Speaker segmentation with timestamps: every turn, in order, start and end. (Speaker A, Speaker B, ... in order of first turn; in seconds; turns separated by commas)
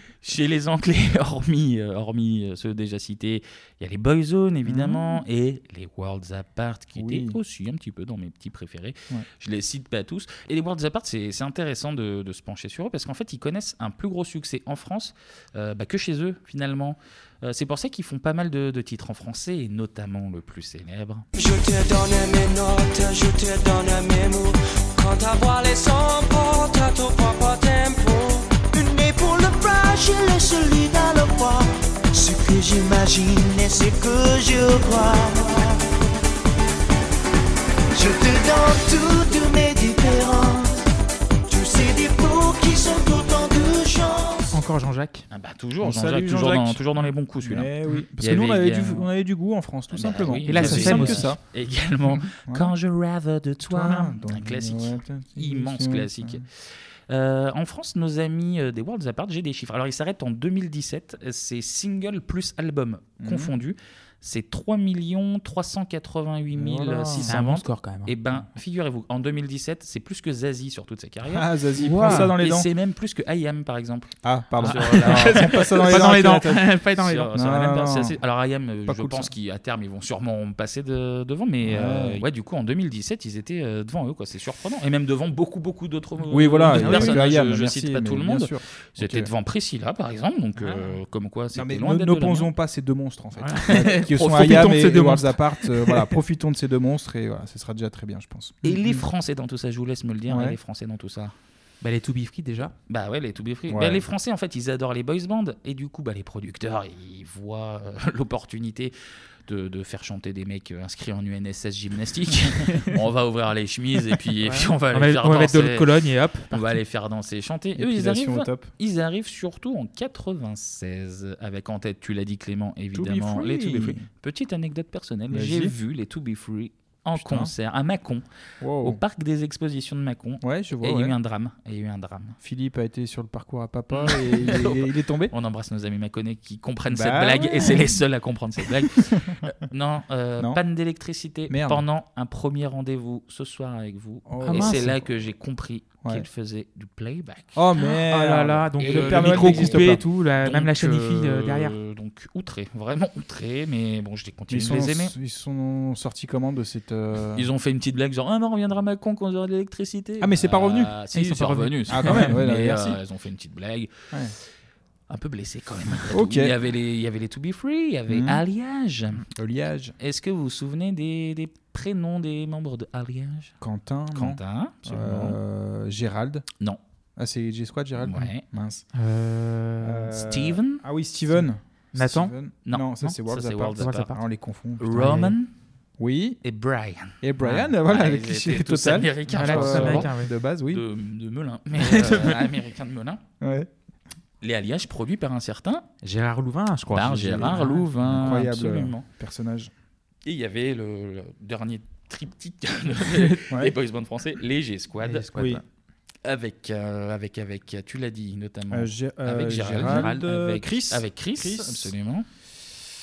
Speaker A: 0.2-21.2, Speaker B: 4.7-5.2, Speaker B: 7.0-7.4, Speaker C: 21.3-28.6, Speaker D: 28.7-35.9, Speaker D: 37.9-40.9, Speaker D: 41.5-44.6, Speaker E: 44.5-45.3, Speaker A: 45.3-49.1, Speaker B: 45.8-46.8, Speaker B: 47.4-51.4, Speaker A: 49.9-56.4, Speaker E: 50.5-51.3, Speaker B: 52.2-52.7, Speaker B: 53.7-56.4, Speaker A: 57.1-76.3, Speaker B: 63.2-63.5, Speaker B: 66.5-67.3, Speaker E: 67.2-68.1, Speaker B: 71.2-72.7, Speaker E: 71.8-72.4, Speaker B: 74.2-76.7, Speaker E: 74.6-77.3, Speaker A: 76.9-92.5, Speaker B: 77.3-78.2, Speaker B: 78.8-79.3, Speaker B: 81.6-82.2, Speaker B: 86.3-89.3, Speaker E: 86.7-87.2, Speaker B: 91.5-99.0, Speaker E: 93.4-96.1, Speaker A: 94.0-94.7, Speaker A: 98.6-101.3, Speaker B: 100.3-100.6, Speaker E: 101.8-102.7, Speaker A: 102.9-108.9, Speaker B: 103.7-104.0, Speaker A: 109.5-115.9, Speaker E: 114.4-116.7, Speaker A: 116.5-128.2, Speaker B: 117.8-118.7, Speaker B: 122.9-124.0, Speaker B: 125.3-125.7, Speaker B: 127.1-127.5, Speaker B: 128.6-129.0, Speaker A: 128.8-132.4, Speaker B: 130.4-131.1, Speaker B: 132.4-135.3, Speaker A: 133.9-147.6, Speaker B: 136.9-137.9, Speaker B: 138.8-139.5, Speaker B: 141.5-141.8, Speaker B: 144.3-145.0, Speaker E: 144.4-145.0, Speaker B: 147.5-150.0, Speaker E: 147.9-151.7, Speaker A: 148.8-155.1, Speaker B: 154.5-157.5, Speaker A: 157.3-163.9, Speaker B: 160.2-160.9, Speaker E: 161.1-162.4, Speaker B: 161.9-163.0, Speaker A: 165.1-169.2, Speaker B: 166.1-166.5, Speaker B: 168.1-168.4, Speaker B: 169.3-169.9, Speaker A: 170.0-173.5, Speaker B: 173.6-176.4, Speaker A: 174.1-175.4, Speaker B: 177.2-178.8, Speaker A: 178.0-178.4, Speaker E: 178.9-180.1, Speaker B: 179.8-185.3, Speaker A: 180.3-180.8, Speaker E: 181.9-182.3, Speaker A: 182.7-184.1, Speaker E: 183.8-184.2, Speaker A: 184.8-185.5, Speaker B: 186.0-186.4, Speaker A: 186.4-187.2, Speaker B: 187.2-190.8, Speaker A: 187.8-190.1, Speaker E: 189.3-190.3, Speaker A: 190.7-193.2, Speaker E: 191.8-192.5, Speaker B: 193.4-193.7, Speaker A: 194.4-195.9, Speaker E: 196.0-197.9, Speaker A: 196.9-199.0, Speaker B: 198.0-199.7, Speaker A: 200.2-205.4, Speaker E: 203.1-203.4, Speaker E: 205.0-205.6, Speaker B: 205.3-205.6, Speaker A: 206.2-212.2, Speaker B: 208.7-211.9, Speaker E: 209.8-210.2